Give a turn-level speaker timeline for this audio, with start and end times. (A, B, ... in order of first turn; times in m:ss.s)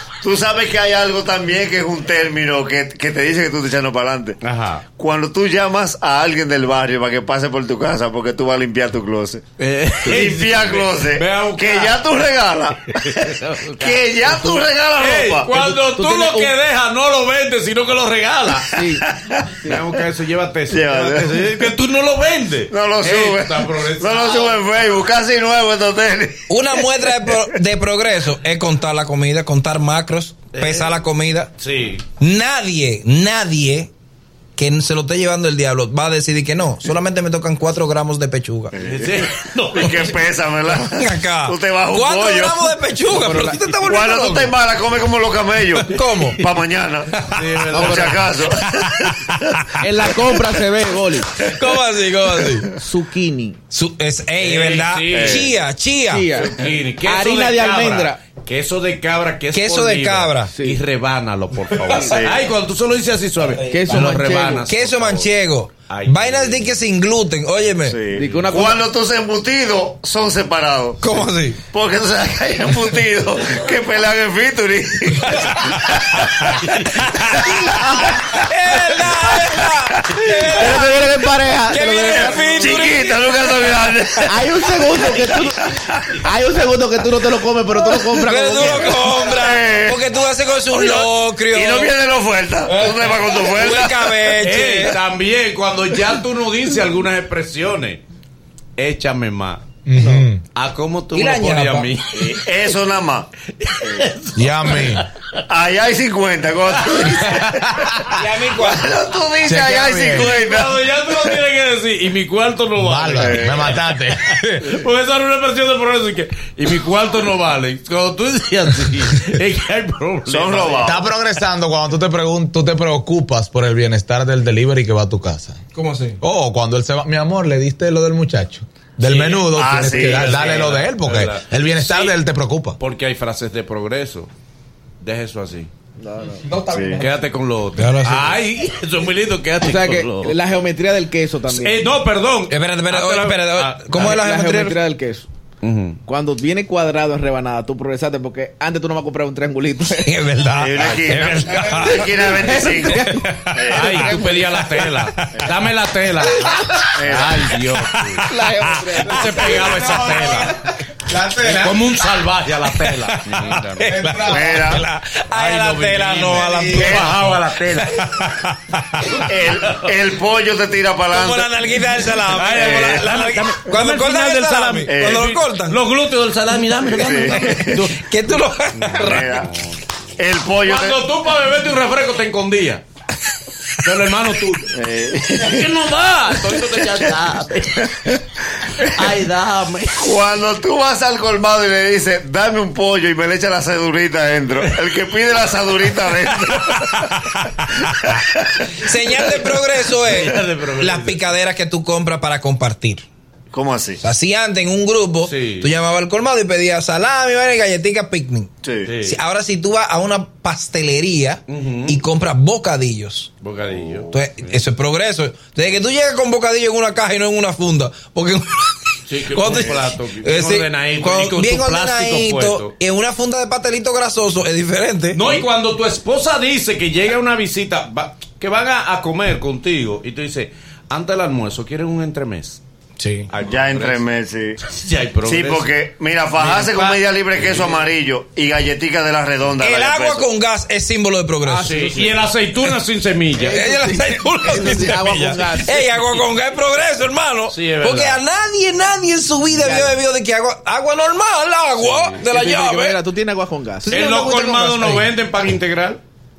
0:00.2-0:04.4 A
0:04.4-0:04.8 B
0:05.0-0:09.4 A
0:09.6-0:12.0 B
0:10.0-0:15.5 A
0:12.9-0:18.8 B
0:15.5-0:16.5 C
0:18.7-0:19.0 C
0:19.1-0:19.7 A
0:19.6-0:24.6 B
0:20.7-0:21.5 A
0:22.7-0:26.5 A
0:26.5-0:31.5 D
0:30.5-0:31.0 B
0:31.6-0:32.0 B
0:32.2-0:33.9 D
0:34.6-0:38.7 D
0:38.7-0:42.7 A
0:38.8-0:40.2 B
0:40.9-0:44.5 D
0:43.1-0:43.6 C
0:43.8-0:47.2 A
0:45.9-0:46.4 D
0:47.2-0:48.3 B
0:47.7-0:48.2 C
0:47.7-0:49.3 A
0:48.7-0:49.3 D
0:49.8-0:51.3 C
0:51.4-0:52.7 D
0:52.8-0:53.6 C
0:53.7-0:56.4 D
0:54.4-0:55.5 B
0:55.1-0:55.5 A
0:56.1-0:58.2 C
0:56.4-1:05.3 B
0:59.5-1:00.5 D
1:01.9-1:02.1 C
1:02.1-1:02.4 A
1:03.7-1:04.6 C
1:04.7-1:08.0 D
1:05.9-1:06.7 B
1:07.8-1:11.0 A
1:08.1-1:08.8 C
1:11.0-1:11.6 D
1:11.7-1:16.5 A
1:16.5-1:17.0 B
1:17.1-1:21.1 D
1:20.5-1:22.8 C
1:21.7-1:23.6 D
1:22.6-1:24.4 A
1:24.2-1:25.6 C
1:25.7-1:26.1 A
1:26.2-1:29.0 C
1:28.2-1:31.9 D
1:29.3-1:30.0 A
1:30.7-1:34.1 A
1:32.7-1:35.0 D
1:34.4-1:38.0 B
1:38.8-1:39.7 B
1:39.9-1:40.4 E
1:40.5-1:42.7 B
1:41.1-1:41.9 D
1:42.1-1:43.3 A
1:43.6-1:45.4 B
1:44.3-1:45.1 E
1:45.5-1:48.0 A
1:46.8-1:47.6 B
1:48.1-1:48.9 D
1:48.5-1:51.3 A
1:49.4-1:50.3 E
1:50.1-2:01.0 B
1:52.8-1:54.4 E
1:53.2-1:53.8 A
2:00.3-2:01.0 A
2:00.8-2:05.6 E
2:05.7-2:06.2 D
2:06.2-2:12.8 E
2:09.0-2:12.2 B
2:09.6-2:10.7 A
2:12.8-2:14.3 B
2:15.0-2:15.7 B
2:16.0-2:16.5 C
2:16.4-2:17.0 E
2:16.7-2:17.0 A
2:17.0-2:20.3 B
2:17.8-2:18.4 D
2:19.6-2:21.8 C
2:21.5-2:24.1 B
2:22.5-2:24.8 D
2:23.9-2:25.3 C
2:25.6-2:26.0 B
2:26.0-2:30.1 C
2:30.0-2:32.2 D
2:30.5-2:34.2 A
2:30.8-2:31.3 B
2:32.3-2:34.6 C
2:33.4-2:38.2 B
2:37.0-2:37.5 A
2:37.9-2:39.0 D
2:38.2-2:40.0 C
2:39.1-2:40.5 B
2:39.6-2:40.5 E
2:41.1-2:41.9 E
2:41.4-2:44.4 B
2:42.7-2:49.2 D
2:43.9-2:44.4 E
2:44.3-2:44.8 A
2:45.3-2:48.2 B
2:46.8-2:47.2 A
2:49.2-2:51.5 A
2:51.1-2:55.8 D
2:52.3-2:58.1 B
2:52.6-2:53.0 A
2:54.9-2:55.3 A
2:56.9-2:57.8 A
2:57.3-2:59.5 D
2:58.7-2:59.8 B
2:59.0-2:59.5 A
3:00.2-3:01.0 A
3:00.6-3:02.8 B
3:03.8-3:04.7 B
3:04.7-3:05.7 A
3:05.4-3:08.2 B
3:08.8-3:10.1 B
3:10.0-3:17.3 A
3:18.0-3:18.6 A
3:18.8-3:23.0 D
3:20.0-3:21.2 B
3:23.5-3:24.0 A
3:24.0-3:28.5 D
3:25.2-3:25.7 B
3:28.6-3:28.9 A
3:28.8-3:29.2 B
3:29.0-3:33.3 D
3:31.5-3:32.0 B
3:33.4-3:34.6 B
3:33.7-3:34.1 A
3:34.1-3:45.3 D
3:39.1-3:42.7 B
3:45.1-3:52.6 B
3:53.0-3:53.3 D
3:53.3-3:54.0 B
3:53.4-3:54.6 A
3:54.6-3:55.7 B
3:55.2-4:00.2 A
3:56.4-3:57.9 B
3:59.6-4:01.7 D
4:01.4-4:02.3 C
4:01.6-4:03.7 B
4:03.4-4:05.9 C
4:03.5-4:13.0 D
4:07.5-4:08.2 B
4:09.6-4:09.9 C
4:11.8-4:12.2 B
4:12.2-4:14.0 C
4:13.8-4:15.1 D
4:13.9-4:16.0 B